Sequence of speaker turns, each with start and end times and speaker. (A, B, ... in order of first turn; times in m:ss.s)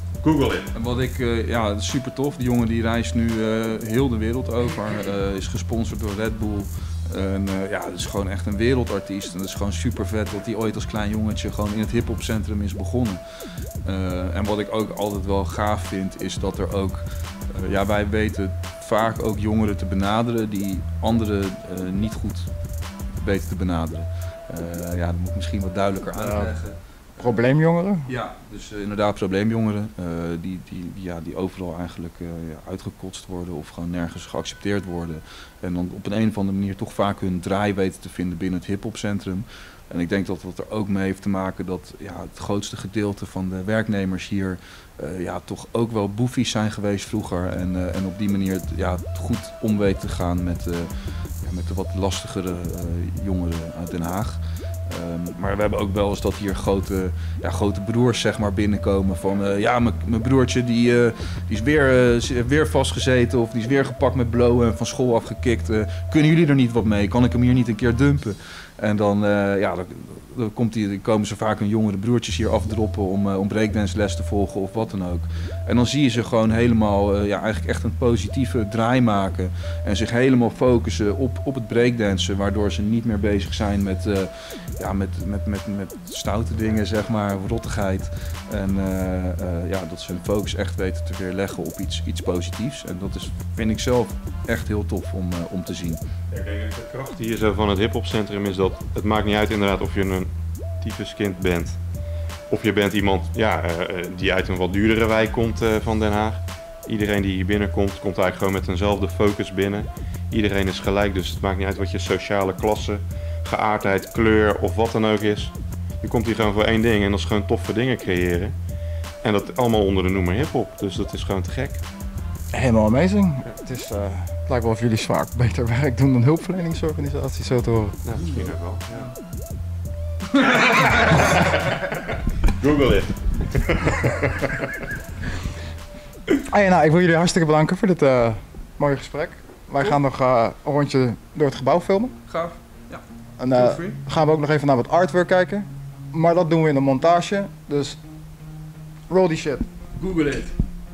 0:00.2-0:00.7 A
0:00.7-0:13.2 B
0:13.8-0:22.5 B
0:23.2-0:27.4 B
0:26.1-0:26.5 C
0:27.2-0:28.1 C
0:28.1-0:50.9 B
0:51.4-1:36.0 B
1:36.3-1:40.3 A
1:40.8-1:41.8 A
1:42.5-1:58.5 A
1:59.2-2:01.8 A
2:02.5-2:08.0 C
2:08.0-2:09.1 A
2:10.4-2:11.1 B
2:10.4-2:12.0 A
2:12.5-2:14.7 A
2:16.5-2:22.1 C
2:22.3-2:24.0 B
2:23.4-2:28.0 C
2:29.1-2:29.6 C
2:30.0-2:30.6 B